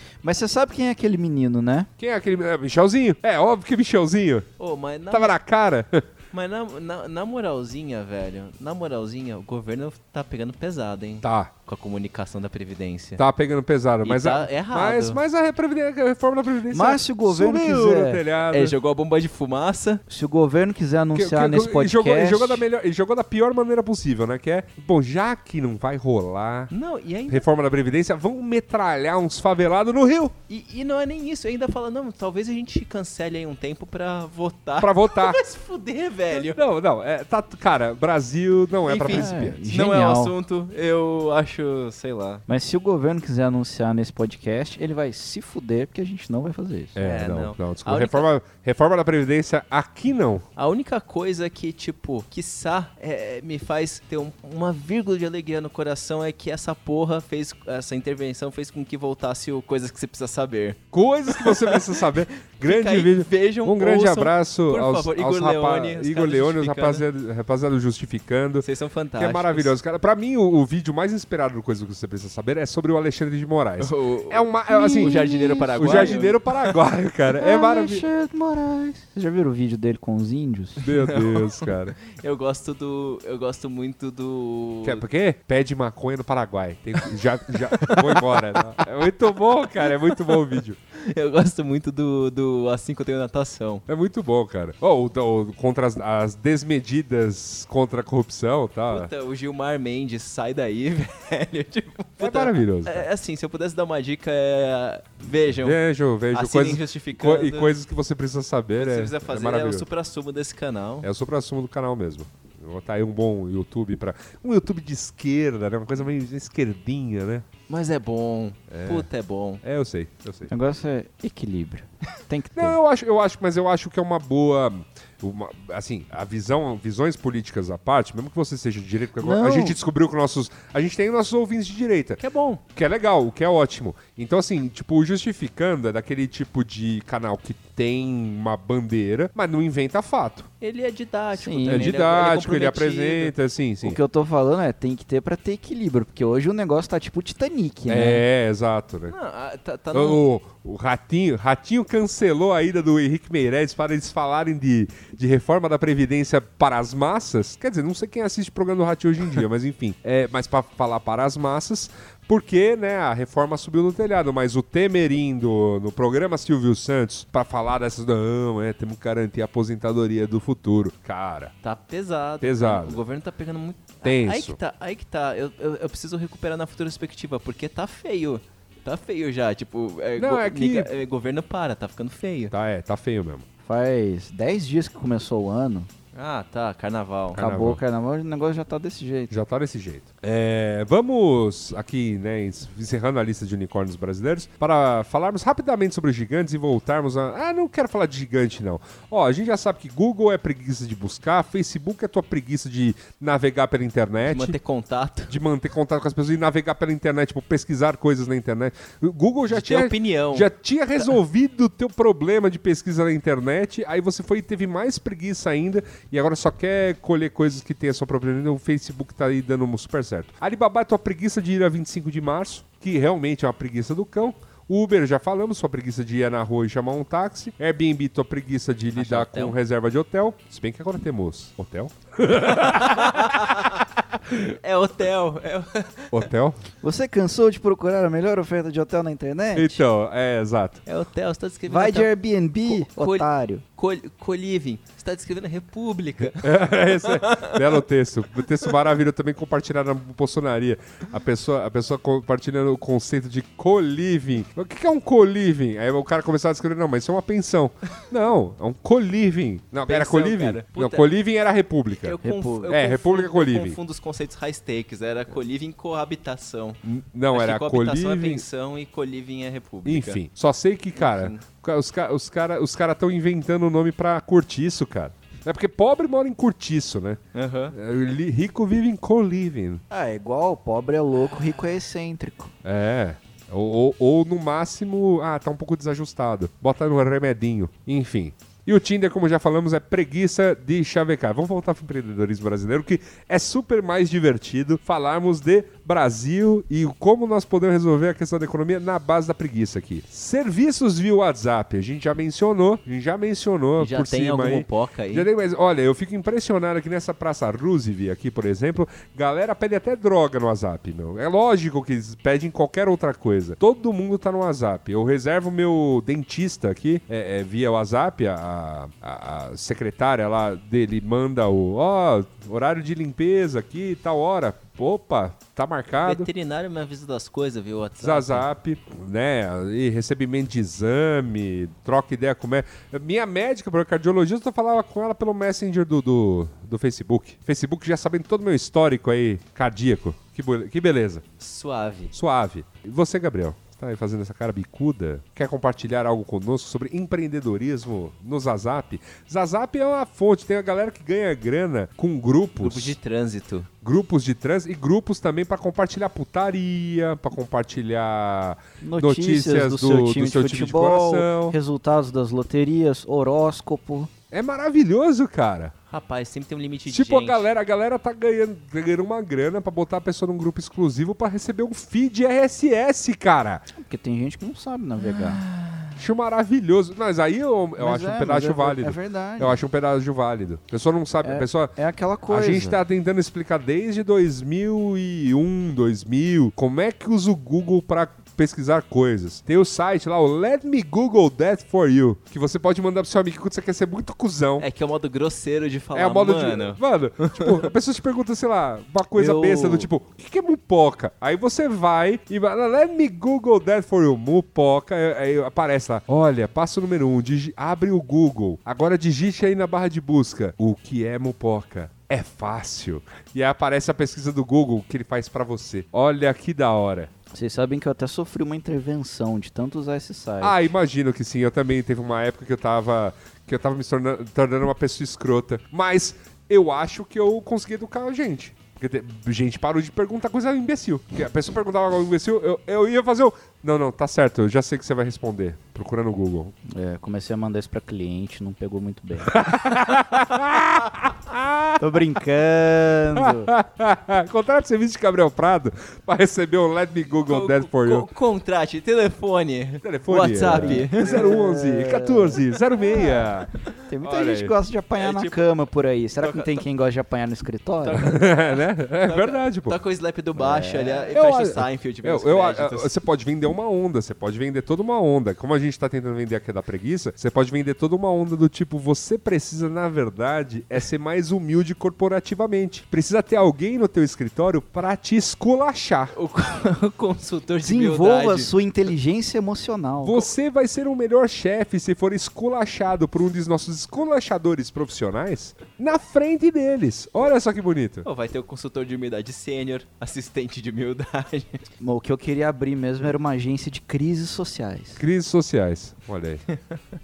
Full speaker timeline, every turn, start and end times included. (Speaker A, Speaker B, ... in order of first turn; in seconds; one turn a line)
Speaker A: 0.2-1.9
Speaker B: 2.0-4.5
Speaker C: 4.6-5.3
Speaker B: 5.1-6.0
Speaker C: 6.3-13.2
Speaker B: 11.2-11.5
Speaker B: 13.2-18.8
Speaker C: 14.0-15.2
Speaker A: 16.7-18.2
Speaker C: 18.5-20.0
Speaker A: 20.1-22.6
Speaker B: 21.1-26.7
Speaker C: 26.7-27.4
Speaker B: 27.3-30.4
Speaker C: 30.5-36.6
Speaker B: 34.8-35.4
Speaker B: 36.3-39.6
Speaker C: 38.9-42.4
Speaker A: 39.1-40.3
Speaker A: 42.5-47.0
Speaker B: 47.0-50.5
Speaker C: 47.0-48.3
Speaker C: 50.6-67.0
Speaker B: 60.9-68.7
Speaker C: 68.6-69.7
Speaker B: 69.2-78.1
Speaker C: 73.8-76.6
Speaker A: 74.7-76.3
Speaker A: 77.4-80.8
Speaker B: 80.8-82.0
Speaker C: 80.8-85.0
Speaker B: 84.8-90.8
Speaker C: 87.7-88.6
Speaker C: 89.8-93.8
Speaker B: 93.9-99.1
Speaker C: 98.9-105.8
Speaker B: 102.2-103.1
Speaker B: 105.6-109.9
Speaker C: 106.3-107.8
Speaker C: 108.8-111.1
Speaker B: 111.0-117.5
Speaker C: 117.7-119.6
Speaker B: 118.7-119.1
Speaker B: 119.6-120.5
Speaker A: 120.5-122.8
Speaker B: 122.6-132.2
Speaker A: 129.2-129.8
Speaker C: 132.2-132.6
Speaker B: 132.8-140.5
Speaker C: 140.6-143.3
Speaker A: 141.4-141.9
Speaker B: 141.7-144.0
Speaker A: 143.8-148.2
Speaker B: 147.9-149.2
Speaker C: 149.1-150.2
Speaker B: 149.9-171.5
Speaker C: 171.6-182.5
Speaker B: 172.4-173.0
Speaker B: 174.0-174.6
Speaker B: 180.2-180.9
Speaker B: 182.5-183.4
Speaker A: 183.7-185.9
Speaker C: 186.1-187.4
Speaker B: 187.3-187.8
Speaker A: 187.4-189.3
Speaker B: 189.3-204.6
Speaker C: 204.3-205.3
Speaker B: 205.3-233.7
Speaker C: 209.5-211.2
Speaker C: 228.9-229.6
Speaker C: 232.4-233.8
Speaker B: 234.3-234.6
Speaker C: 234.5-236.3
Speaker B: 236.1-236.6
Speaker A: 236.8-239.8
Speaker B: 239.5-240.8
Speaker C: 240.9-242.1
Speaker A: 241.7-243.6
Speaker C: 242.7-247.8
Speaker B: 246.2-262.2
Speaker C: 259.9-261.1
Speaker C: 261.9-266.8
Speaker A: 262.2-262.7
Speaker B: 262.7-263.8
Speaker B: 266.9-268.4
Speaker C: 267.3-270.2
Speaker B: 269.9-279.8
Speaker C: 271.0-271.4
Speaker C: 277.3-277.8
Speaker A: 279.9-282.5
Speaker B: 282.6-326.3
Speaker C: 303.8-305.3
Speaker C: 326.1-328.5
Speaker B: 328.0-341.2
Speaker C: 341.4-342.1
Speaker B: 342.1-353.0
Speaker C: 352.6-353.7
Speaker B: 353.8-361.6
Speaker A: 358.8-364.1
Speaker B: 364.3-365.7
Speaker C: 365.9-367.5
Speaker B: 366.9-373.7
Speaker A: 373.7-375.4
Speaker C: 375.0-376.0
Speaker B: 376.0-381.7
Speaker A: 377.8-379.6
Speaker A: 381.2-382.8
Speaker B: 382.3-394.7
Speaker C: 394.6-397.7
Speaker B: 395.9-417.1
Speaker C: 399.1-399.9
Speaker A: 417.3-420.6
Speaker B: 420.4-436.5
Speaker A: 436.7-439.4
Speaker B: 439.2-442.0
Speaker A: 441.8-443.5
Speaker B: 443.2-448.1
Speaker C: 447.2-451.4
Speaker B: 449.8-453.5
Speaker A: 450.4-452.4
Speaker A: 453.9-458.0
Speaker B: 454.0-454.5
Speaker C: 455.0-455.4
Speaker C: 456.2-456.6
Speaker C: 457.8-462.9
Speaker B: 458.0-459.8
Speaker A: 460.4-461.1
Speaker B: 461.1-476.1
Speaker C: 476.1-478.5
Speaker A: 477.6-480.3
Speaker B: 480.0-488.1
Speaker C: 488.1-491.6
Speaker A: 491.8-495.0
Speaker B: 495.0-496.4